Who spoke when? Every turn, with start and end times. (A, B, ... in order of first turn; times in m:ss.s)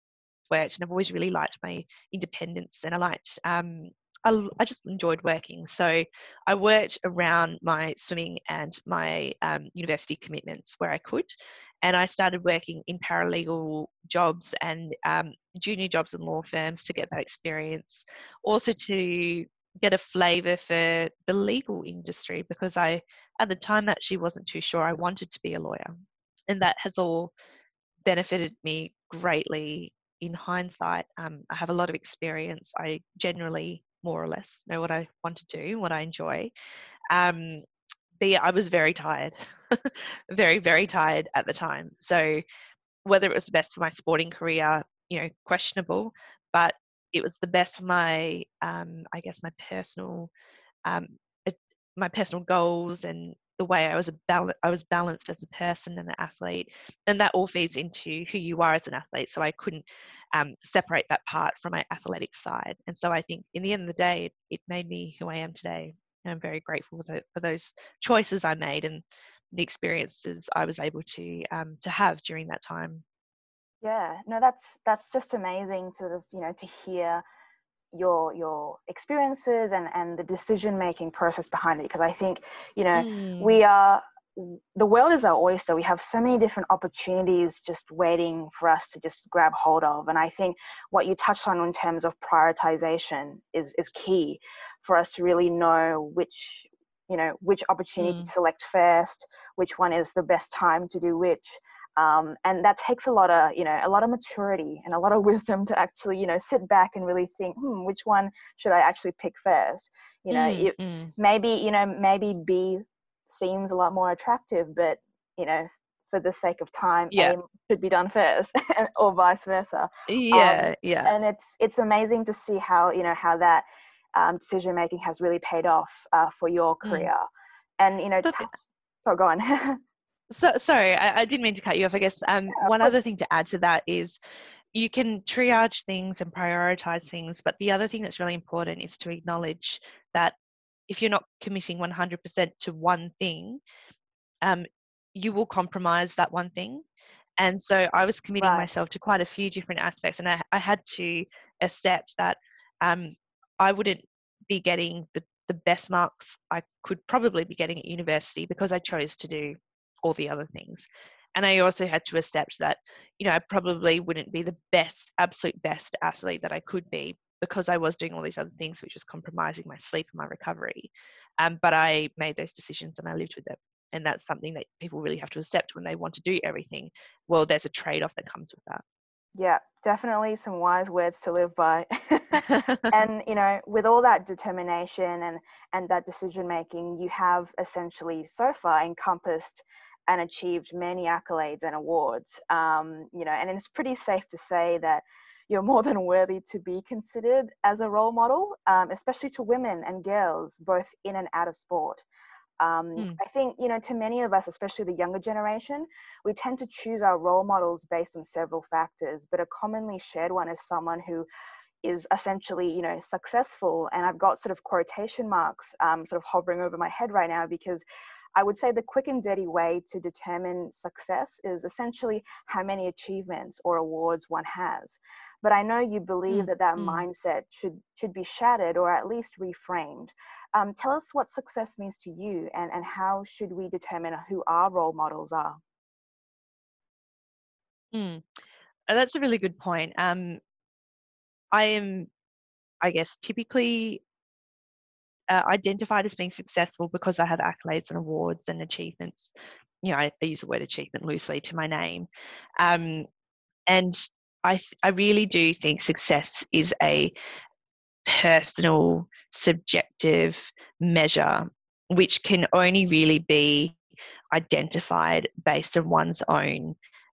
0:00.5-0:11.3 A
0:11.8-0:25.9 A
0:26.5-0:27.3 A
0:28.0-0:36.5 A
0:37.1-0:37.6 A
0:38.2-0:42.4 A
0:43.0-0:50.3 A
0:50.8-1:13.0 A
1:13.8-1:17.2 B
1:17.9-2:07.2 B
1:22.9-1:23.6 A
1:38.0-1:38.3 A
1:50.3-1:51.1 A
2:00.1-2:01.1 A
2:06.8-2:07.1 A
2:07.8-2:09.8 B
2:10.3-2:14.2 A
2:12.5-2:12.9 B
2:14.7-2:20.4 A
2:20.9-2:23.6 A
2:24.4-2:26.8 A
2:27.4-2:58.8 A
2:28.4-2:28.7 B
2:59.4-3:22.0 B
3:02.5-3:02.9 A
3:22.6-3:31.3 B
3:31.8-3:37.8 B
3:38.3-3:55.6 B
3:46.3-3:47.0 A
3:57.9-3:58.3 A
3:58.9-4:00.4 A
4:01.5-4:02.1 A
4:02.8-4:04.0 A
4:05.3-4:12.1 A
4:12.6-4:13.1 A
4:13.7-4:17.1 A
4:18.0-4:23.8 A
4:24.3-4:26.7 A